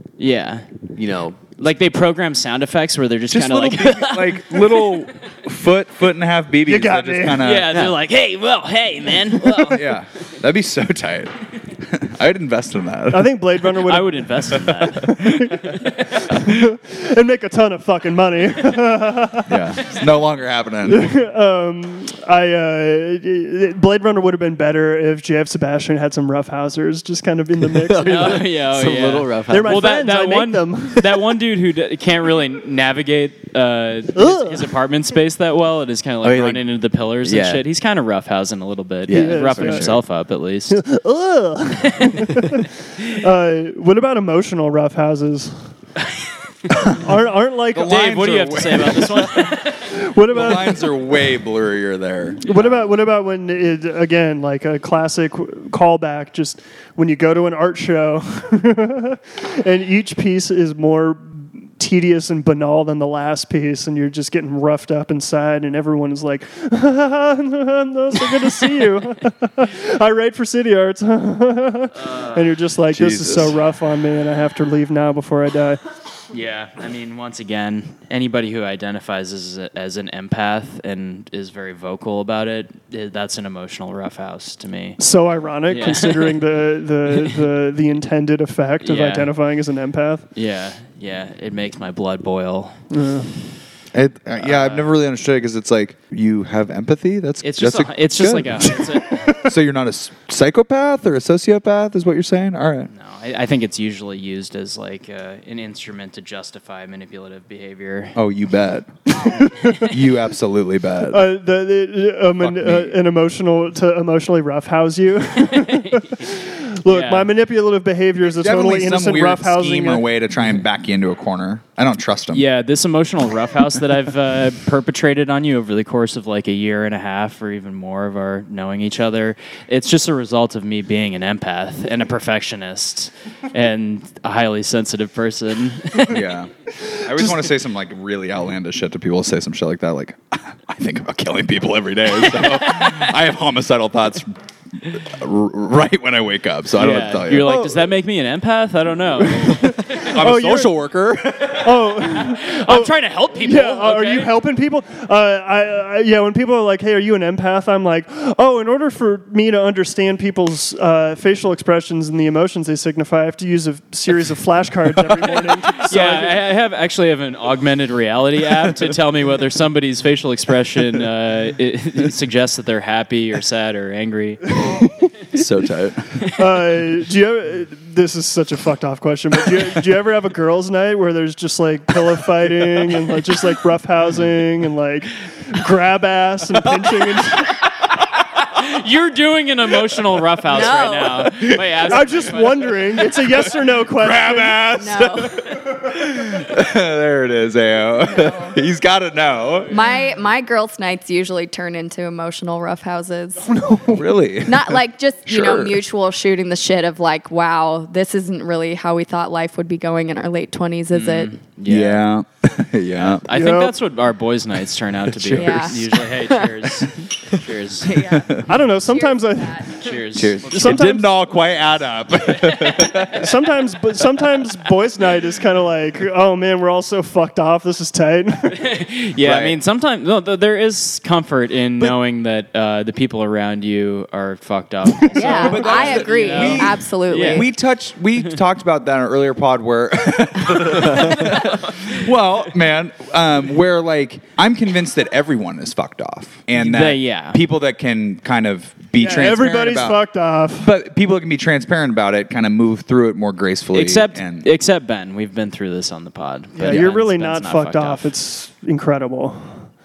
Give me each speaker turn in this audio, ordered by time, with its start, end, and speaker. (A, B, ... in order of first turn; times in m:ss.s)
0:00.2-0:00.7 A
0:01.0-0:01.6 B
0:01.6-0:05.1 A
0:03.3-0:07.8 C
0:06.7-0:07.4 D
0:07.4-0:09.9 A
0:07.7-0:08.0 B
0:09.6-0:13.4 C
0:13.1-0:19.7 D
0:13.8-0:15.9 A
0:14.8-0:15.5 C
0:19.5-0:21.2 C
0:20.9-0:28.4 D
0:27.7-0:29.8 B
0:28.0-0:40.8 A
0:29.5-0:31.1 D
0:34.2-0:34.6 D
0:36.2-0:36.6 B
0:37.2-0:37.6 B
0:39.1-0:40.0 B
0:39.1-0:40.0 D
0:40.7-0:45.7 D
0:41.9-0:42.2 A
0:46.7-0:48.0 D
0:47.7-0:49.7 C
0:47.8-0:49.9 A
0:49.8-0:50.9 D
0:50.3-0:52.4 C
0:52.4-1:15.8 D
0:52.4-0:52.9 A
1:12.0-1:12.5 A
1:12.9-1:13.6 B
1:16.3-1:25.0 A
1:25.0-1:30.3 D
1:25.7-1:26.4 A
1:28.8-1:29.3 A
1:30.4-1:32.8 A
1:32.9-1:33.4 D
1:33.9-1:42.9 C
1:34.4-1:34.9 A
1:37.4-1:39.5 A
1:42.9-1:48.2 A
1:48.2-1:51.2 C
1:49.2-1:49.9 D
1:51.1-2:00.0 D
1:52.4-1:53.0 C
1:55.4-1:56.1 A
1:56.9-1:57.3 A
1:58.4-2:02.4 C
2:02.3-2:16.2 A
2:16.1-2:27.5 C
2:22.3-2:23.1 A
2:26.8-2:30.2 A
2:27.4-2:27.9 D
2:29.2-2:30.7 D
2:30.1-2:32.0 C
2:31.6-2:46.4 D
2:32.1-2:34.4 A
2:45.8-2:54.6 A
2:54.6-2:54.9 D
2:55.3-2:56.2 C
2:56.4-3:07.6 D
3:08.5-3:13.0 A
3:10.5-3:11.3 E
3:11.8-3:14.7 D
3:13.9-3:19.8 C
3:14.8-3:15.4 E
3:18.1-3:18.5 E
3:19.7-3:23.7 E
3:23.6-3:24.0 D
3:23.9-3:25.8 C
3:24.4-3:31.4 E
3:30.9-3:32.1 A
3:31.6-3:33.2 C
3:33.0-3:37.9 A
3:33.3-3:33.7 D
3:35.1-3:35.8 C
3:35.4-3:36.6 E
3:37.8-3:39.8 E
3:38.0-3:38.5 C
3:38.5-3:41.2 D
3:39.8-3:40.8 A
3:40.1-3:40.7 B
3:40.6-3:43.3 C
3:43.1-3:48.7 D
3:48.5-3:57.5 A
3:49.2-3:49.6 C
3:55.1-3:55.6 D
3:55.1-3:57.5 E
3:55.4-4:10.0 C
4:01.2-4:01.9 A
4:06.6-4:07.4 A
4:09.0-4:10.7 D
4:10.6-4:14.5 C
4:13.7-4:18.1 A
4:16.6-4:19.5 D